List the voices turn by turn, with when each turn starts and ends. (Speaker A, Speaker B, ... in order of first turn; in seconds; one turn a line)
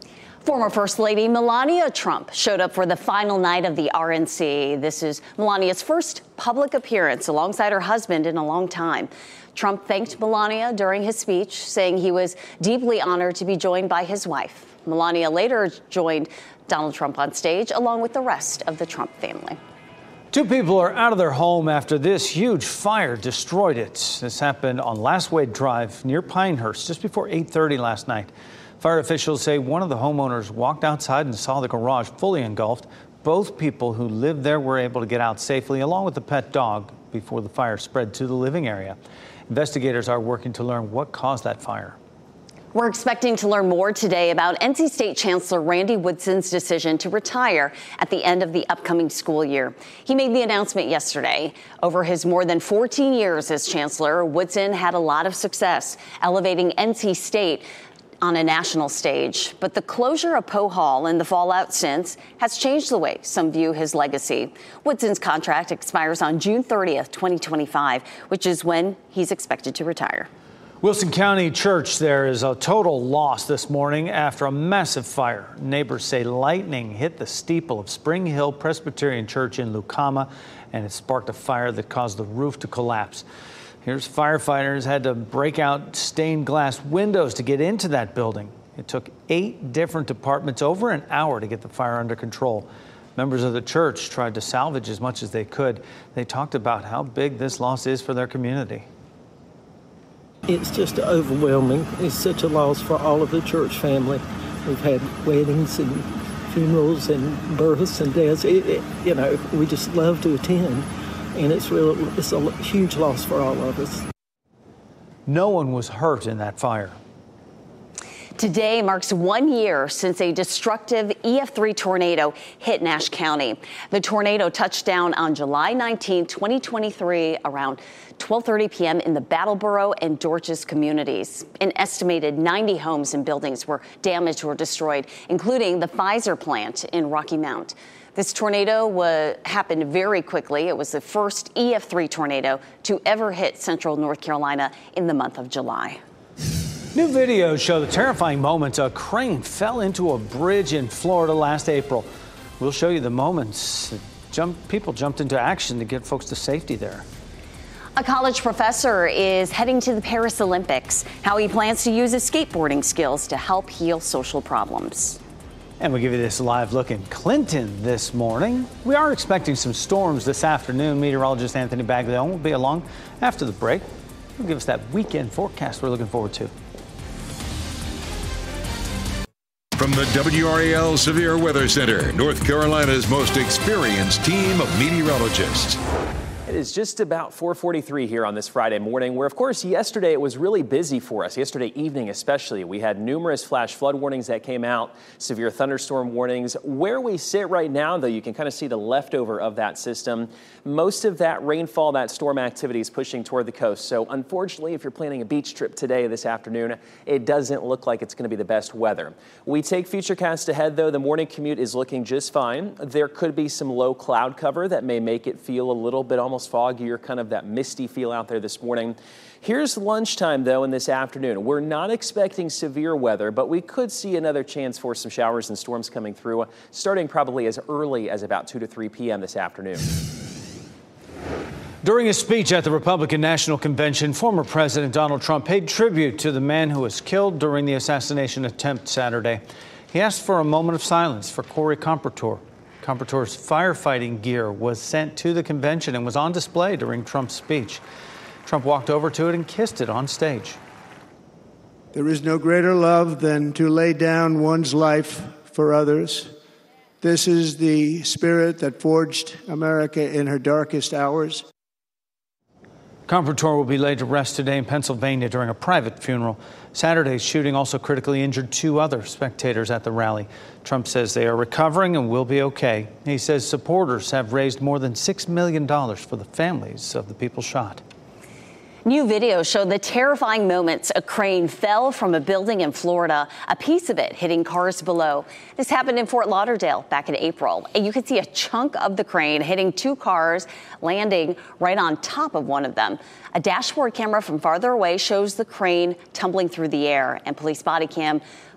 Speaker A: 0.4-19.6
Speaker B: 20.3-39.0
Speaker B: 39.5-42.0
Speaker A: 42.7-57.7
Speaker A: 58.2-70.3
Speaker B: 70.8-83.2
Speaker B: 83.8-98.8
Speaker C: 100.5-114.0
Speaker B: 115.3-117.0
Speaker A: 118.4-146.0
Speaker B: 146.9-152.1
Speaker B: 152.6-157.1
Speaker A: 157.9-165.2
Speaker B: 165.8-173.8
Speaker B: 174.4-176.5
Speaker D: 179.8-185.8
Speaker E: 186.4-229.8
Speaker B: 231.8-247.8
Speaker B: 248.4-250.6
Speaker F: 251.9-256.3
Speaker F: 257.0-261.4
Speaker B: 263.1-277.8
Speaker A: 278.9-298.2